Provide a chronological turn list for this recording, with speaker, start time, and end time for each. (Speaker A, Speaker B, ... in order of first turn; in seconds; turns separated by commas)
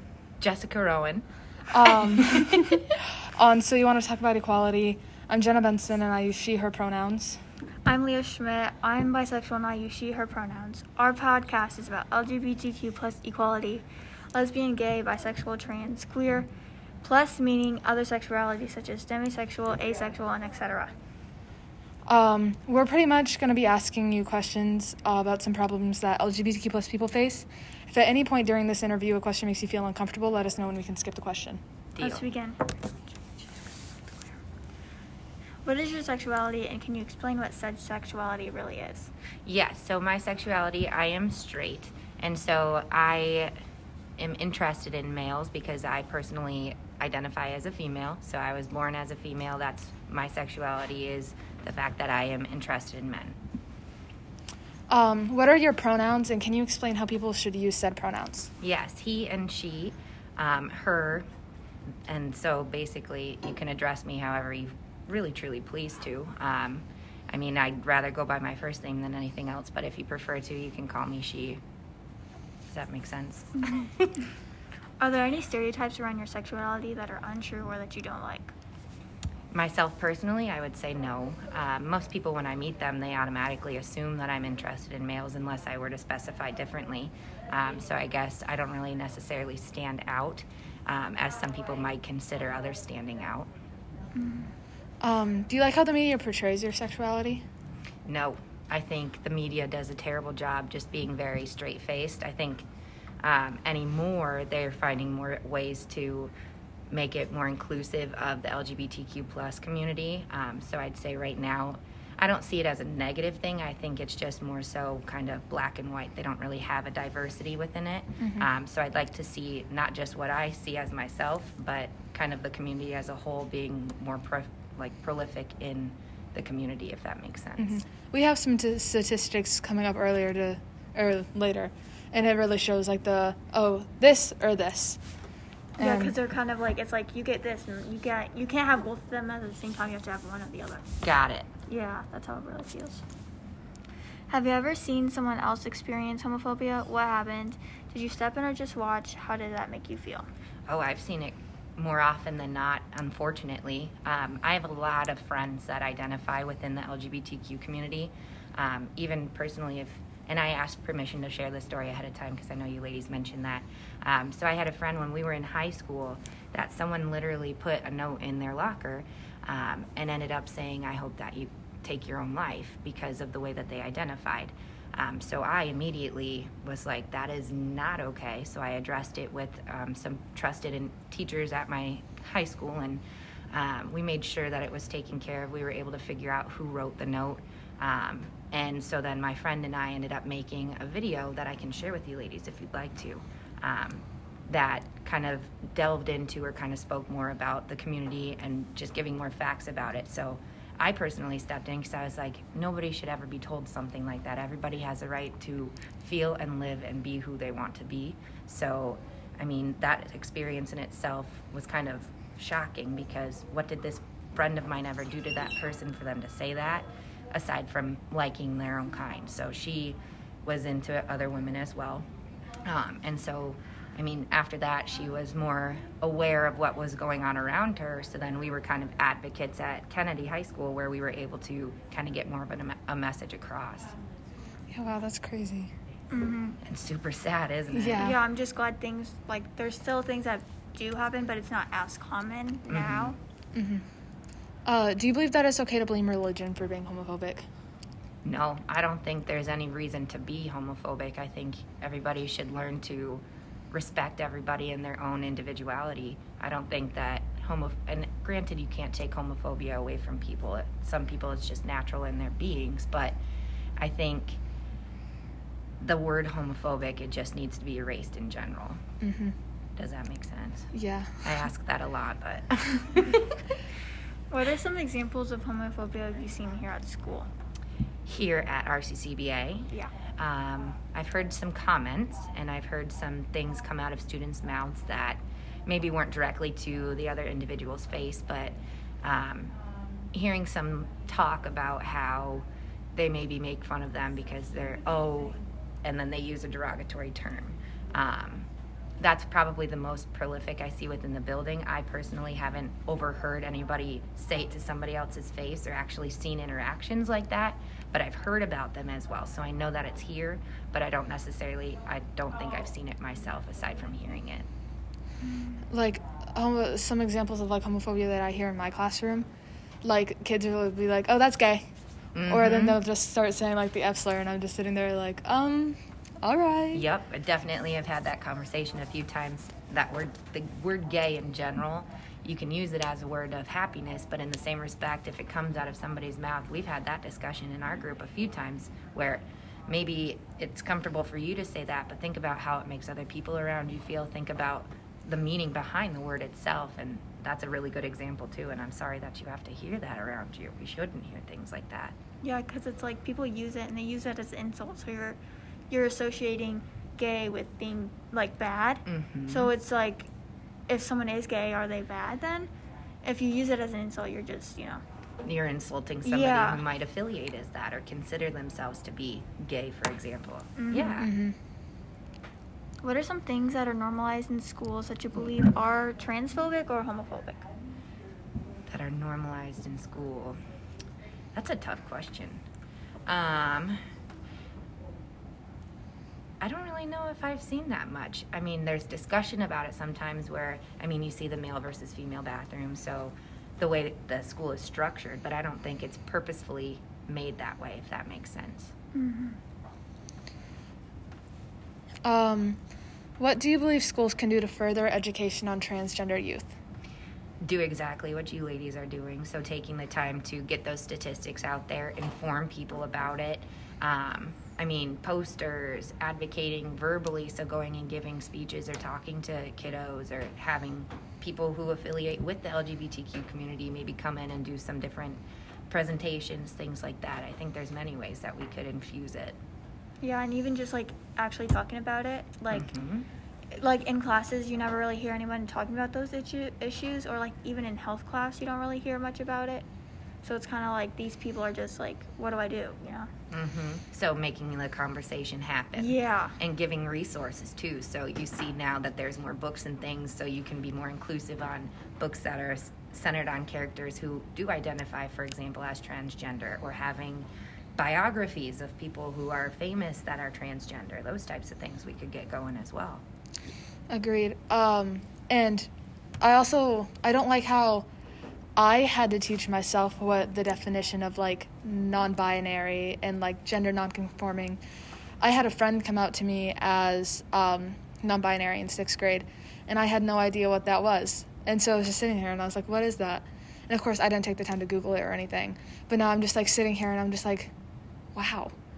Speaker A: 0.4-1.2, Speaker B: 1.7-7.4, Speaker A: 1.8-2.5, Speaker C: 7.8-16.5, Speaker C: 17.0-20.9, Speaker B: 22.1-31.6, Speaker A: 31.9-32.2, Speaker C: 32.0-32.7, Speaker C: 33.3-33.6, Speaker C: 35.6-39.1, Speaker A: 39.4-43.5, Speaker A: 44.2-53.4, Speaker B: 54.9-58.5, Speaker A: 58.6-61.2, Speaker A: 62.1-71.6, Speaker A: 72.7-74.0, Speaker C: 75.0-78.5, Speaker A: 79.5-93.5, Speaker C: 94.1-94.5, Speaker B: 95.0-97.4, Speaker A: 98.0-102.6, Speaker A: 103.2-106.3, Speaker A: 106.9-127.8, Speaker B: 118.2-118.5, Speaker B: 127.6-135.0, Speaker C: 135.8-140.9, Speaker B: 135.8-136.2, Speaker A: 141.0-141.5, Speaker C: 141.7-143.0, Speaker C: 144.3-150.3, Speaker A: 150.7-222.0, Speaker A: 222.7-233.9, Speaker B: 234.7-235.7, Speaker C: 236.1-236.6, Speaker A: 236.6-238.1, Speaker B: 237.7-238.2, Speaker C: 238.0-243.2, Speaker A: 242.7-243.1, Speaker B: 243.5-243.8, Speaker B: 244.7-247.4, Speaker A: 248.2-263.1, Speaker A: 263.8-264.4, Speaker A: 265.8-268.8, Speaker B: 269.0-269.3, Speaker A: 269.8-270.7, Speaker B: 270.7-271.3, Speaker A: 271.2-273.4, Speaker C: 274.3-277.3, Speaker A: 278.1-289.5, Speaker A: 290.1-298.5, Speaker A: 299.0-314.4, Speaker C: 315.2-315.6, Speaker B: 315.7-319.2, Speaker B: 319.8-321.7, Speaker A: 322.1-322.8, Speaker B: 322.2-326.9, Speaker A: 326.7-351.9, Speaker C: 352.2-355.2, Speaker C: 355.7-360.1, Speaker A: 358.9-359.5, Speaker C: 360.7-362.5, Speaker C: 363.0-364.8, Speaker A: 365.2-371.1, Speaker C: 366.0-366.6, Speaker C: 370.6-371.1, Speaker B: 371.0-371.3, Speaker C: 372.8-377.5, Speaker A: 378.7-380.4, Speaker A: 381.3-382.4, Speaker A: 383.1-383.8, Speaker A: 386.4-398.7, Speaker C: 398.9-399.4, Speaker B: 402.0-402.6, Speaker B: 403.2-406.5, Speaker A: 407.4-429.4, Speaker C: 430.0-432.7, Speaker A: 432.5-433.1, Speaker C: 433.6-439.6, Speaker C: 440.2-443.1, Speaker A: 443.3-463.0, Speaker C: 445.8-446.4, Speaker B: 463.9-465.7, Speaker B: 466.2-467.9, Speaker B: 468.6-474.6, Speaker B: 475.2-487.5, Speaker B: 488.1-488.5